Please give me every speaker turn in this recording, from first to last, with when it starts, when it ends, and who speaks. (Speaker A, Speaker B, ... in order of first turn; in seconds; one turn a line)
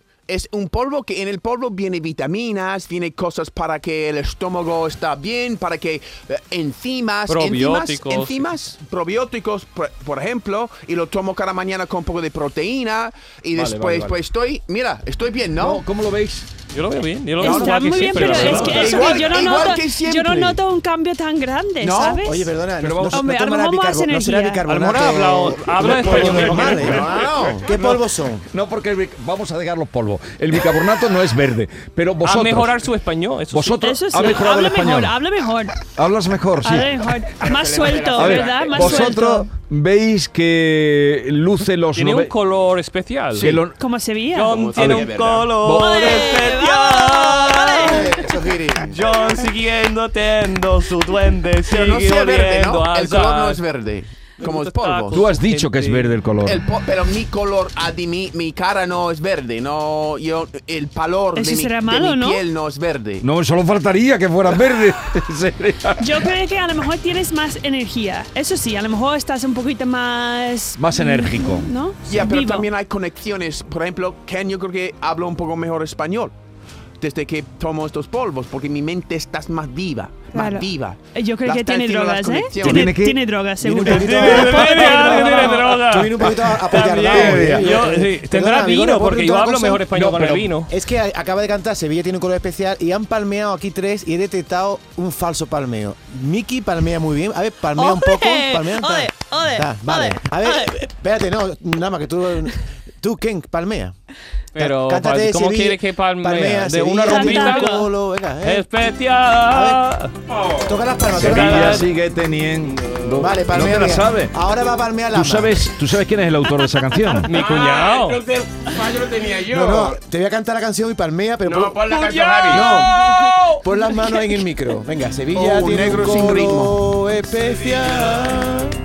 Speaker A: 0.3-15.8
Speaker B: 7.3-8.5
Speaker C: 13.5-14.2
Speaker C: 15.6-16.5
Speaker B: 16.7-19.4
Speaker A: 17.4-20.6
Speaker D: 17.4-22.5
Speaker C: 18.2-19.0
Speaker A: 21.8-22.3
Speaker E: 22.2-28.5
Speaker C: 22.8-23.3
Speaker D: 23.1-24.6
Speaker B: 24.7-27.3
Speaker C: 25.9-26.9
Speaker A: 26.1-27.7
Speaker C: 27.7-32.8
Speaker B: 32.2-33.8
Speaker C: 33.5-35.2
Speaker D: 33.8-35.8
Speaker C: 35.9-37.1
Speaker D: 36.6-39.5
Speaker F: 37.4-39.2
Speaker C: 38.1-42.3
Speaker B: 42.0-43.6
Speaker C: 43.4-43.8
Speaker D: 43.8-44.6
Speaker B: 44.3-48.2
Speaker F: 44.5-45.6
Speaker C: 44.8-46.0
Speaker D: 45.7-48.2
Speaker E: 47.8-48.7
Speaker A: 48.1-49.0
Speaker B: 48.8-53.6
Speaker A: 51.7-55.3
Speaker B: 54.4-56.1
Speaker C: 55.1-56.6
Speaker A: 56.4-63.2
Speaker D: 61.4-62.4
Speaker C: 63.2-66.3
Speaker D: 66.0-72.7
Speaker C: 70.8-71.7
Speaker A: 72.1-76.3
Speaker A: 77.0-83.0
Speaker D: 80.3-85.5
Speaker C: 82.6-85.4
Speaker E: 83.6-89.9
Speaker B: 83.8-90.7
Speaker C: 86.7-87.9
Speaker C: 89.9-90.6
Speaker E: 90.7-103.9
Speaker D: 97.8-100.7
Speaker B: 104.5-107.9
Speaker E: 104.6-108.7
Speaker D: 107.1-107.9
Speaker B: 108.4-110.1
Speaker E: 109.5-109.8
Speaker F: 110.3-110.9
Speaker E: 110.6-111.9
Speaker B: 111.1-111.9
Speaker C: 111.1-114.4
Speaker B: 112.6-113.1
Speaker E: 113.2-115.7
Speaker C: 115.1-117.3
Speaker D: 116.6-117.2
Speaker B: 117.2-118.2
Speaker F: 117.3-120.0
Speaker E: 119.4-123.1
Speaker F: 121.5-123.6
Speaker B: 122.0-123.2
Speaker D: 122.8-123.3
Speaker E: 123.6-128.6
Speaker A: 125.3-126.9